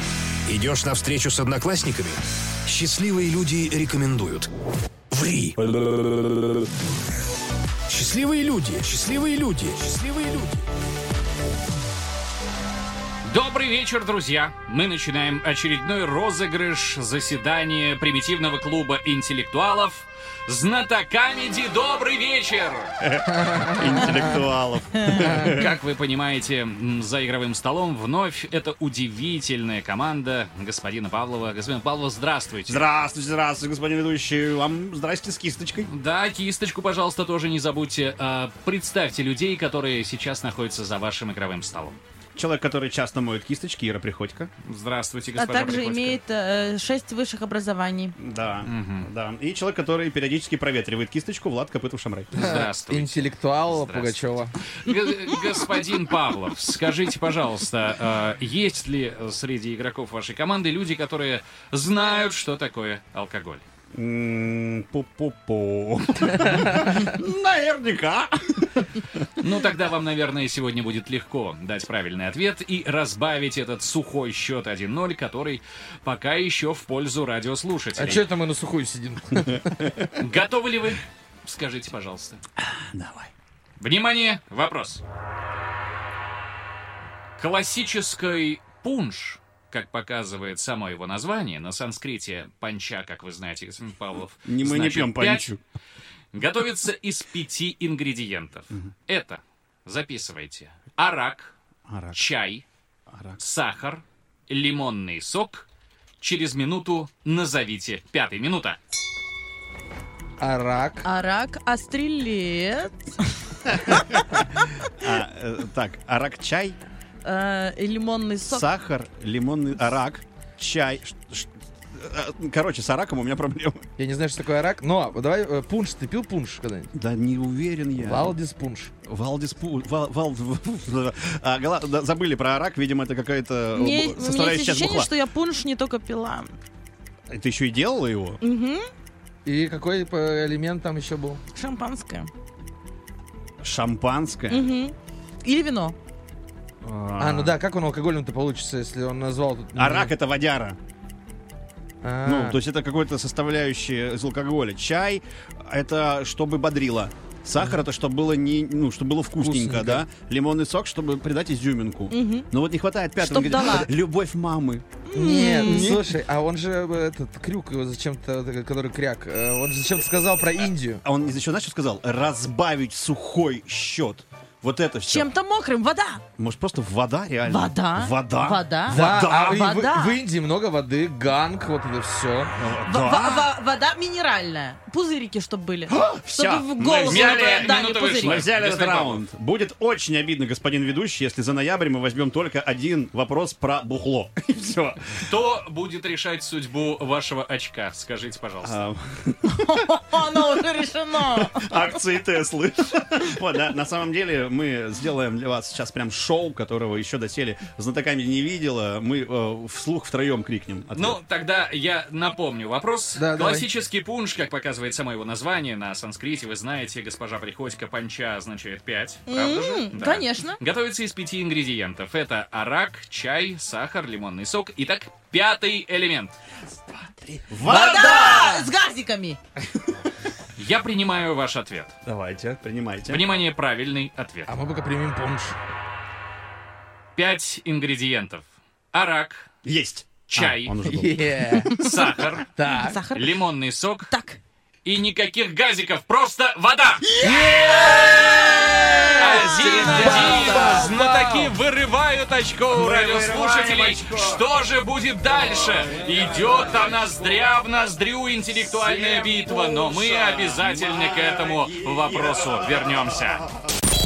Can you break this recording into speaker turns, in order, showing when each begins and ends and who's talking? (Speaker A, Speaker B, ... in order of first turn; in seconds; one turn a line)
Speaker A: 0.5-4.5
Speaker A: 5.1-6.4
Speaker A: 7.9-10.6
Speaker B: 13.2-22.9
Speaker C: 23.0-25.8
Speaker B: 25.3-32.9
Speaker C: 32.7-35.9
Speaker B: 35.9-42.0
Speaker C: 42.4-44.5
Speaker B: 44.6-46.2
Speaker D: 45.4-48.1
Speaker C: 48.2-52.6
Speaker B: 48.6-49.1
Speaker B: 52.3-63.6
Speaker E: 52.4-54.5
Speaker C: 63.9-69.2
Speaker B: 69.4-78.3
Speaker E: 78.0-79.9
Speaker B: 80.2-82.4
Speaker C: 82.7-83.3
Speaker B: 83.8-85.0
Speaker B: 87.4-95.5
Speaker C: 94.5-95.6
Speaker B: 96.3-101.5
Speaker C: 101.9-102.2
Speaker B: 102.1-102.7
Speaker C: 103.1-103.4
Speaker B: 103.4-105.7
Speaker B: 106.2-108.8
Speaker E: 110.4-111.1
Speaker D: 111.0-114.2
Speaker C: 113.7-114.4
Speaker C: 115.0-116.8
Speaker D: 117.2-118.7
Speaker C: 118.5-123.9
Speaker E: 124.0-126.9
Speaker C: 126.9-128.3
Speaker E: 128.0-128.9
Speaker C: 129.0-135.1
Speaker D: 133.8-136.6
Speaker C: 137.3-138.4
Speaker D: 138.4-138.9
Speaker E: 139.4-141.4
Speaker D: 141.6-142.3
Speaker C: 143.6-144.7
Speaker D: 144.5-146.0
Speaker C: 146.8-147.6
Speaker E: 147.2-150.1
Speaker C: 149.8-150.8
Speaker E: 152.0-152.6
Speaker C: 152.2-164.8
Speaker E: 159.4-160.0
Speaker D: 162.1-162.5
Speaker D: 163.2-163.9
Speaker D: 165.1-166.0
Speaker E: 165.1-171.0
Speaker C: 165.6-166.0
Speaker C: 171.0-175.3
Speaker D: 175.1-176.2
Speaker C: 176.4-179.7
Speaker D: 177.5-180.2
Speaker E: 178.9-182.6
Speaker C: 182.5-183.5
Speaker D: 182.9-188.4
Speaker C: 185.9-195.2
Speaker B: 187.0-189.2
Speaker B: 195.2-198.8
Speaker C: 198.6-199.8
Speaker D: 199.6-201.8
Speaker C: 201.3-211.2
Speaker B: 210.9-226.4
Speaker E: 213.2-213.7
Speaker D: 219.3-220.6
Speaker C: 227.5-228.7
Speaker D: 227.6-229.4
Speaker E: 227.7-228.4
Speaker B: 230.6-231.9
Speaker C: 232.1-233.3
Speaker B: 233.1-234.5
Speaker E: 234.5-235.6
Speaker B: 237.2-239.5
Speaker C: 239.6-241.6
Speaker B: 240.3-240.8
Speaker E: 240.8-241.8
Speaker B: 241.7-242.5
Speaker E: 242.5-243.0
Speaker D: 242.7-243.4
Speaker B: 243.1-244.1
Speaker D: 244.1-244.4
Speaker B: 244.8-247.1
Speaker E: 247.2-251.5
Speaker D: 248.2-250.9
Speaker B: 249.1-263.4
Speaker C: 250.1-250.6
Speaker C: 252.7-254.4
Speaker C: 256.0-256.9
Speaker C: 258.8-263.2